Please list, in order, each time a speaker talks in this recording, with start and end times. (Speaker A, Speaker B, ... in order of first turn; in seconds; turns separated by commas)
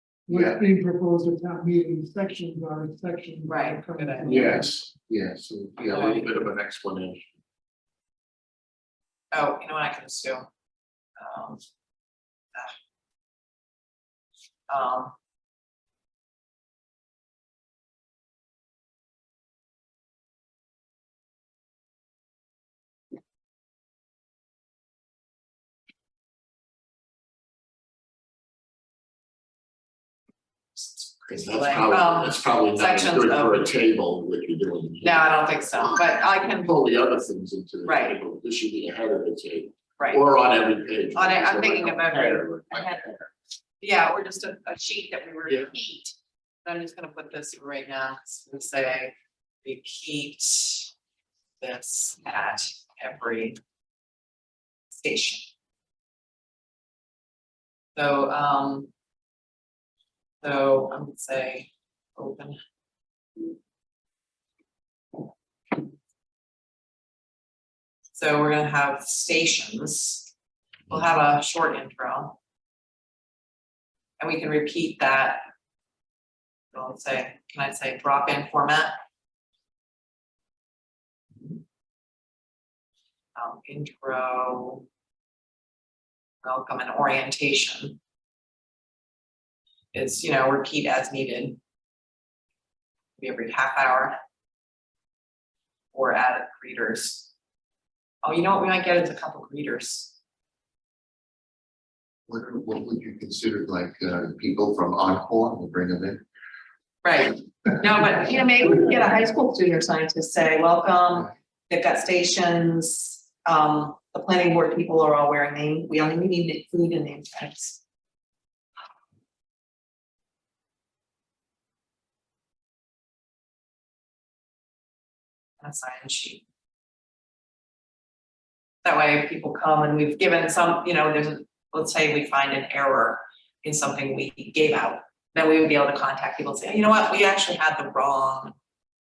Speaker A: 0.3-4.7, Speaker B: 0.3-0.6, Speaker C: 3.5-4.7, Speaker B: 4.2-7.3, Speaker C: 5.9-6.3, Speaker C: 9.3-10.5, Speaker C: 11.2-11.6, Speaker C: 14.7-15.1, Speaker C: 30.8-33.7, Speaker B: 31.3-43.3, Speaker C: 35.0-36.8, Speaker C: 37.9-38.2, Speaker C: 41.1-43.1, Speaker C: 43.8-50.9, Speaker C: 51.6-53.6, Speaker C: 54.9-55.5, Speaker C: 58.0-58.9, Speaker C: 60.4-62.6, Speaker C: 68.1-70.3, Speaker C: 70.9-72.4, Speaker C: 74.2-75.4, Speaker C: 76.7-78.9, Speaker C: 83.4-84.9, Speaker C: 86.4-88.0, Speaker C: 89.9-91.6, Speaker C: 93.2-94.2, Speaker C: 95.9-97.3, Speaker C: 98.2-100.2, Speaker B: 102.3-106.2, Speaker C: 107.0-117.8, Speaker C: 125.6-126.4, Speaker C: 128.8-138.6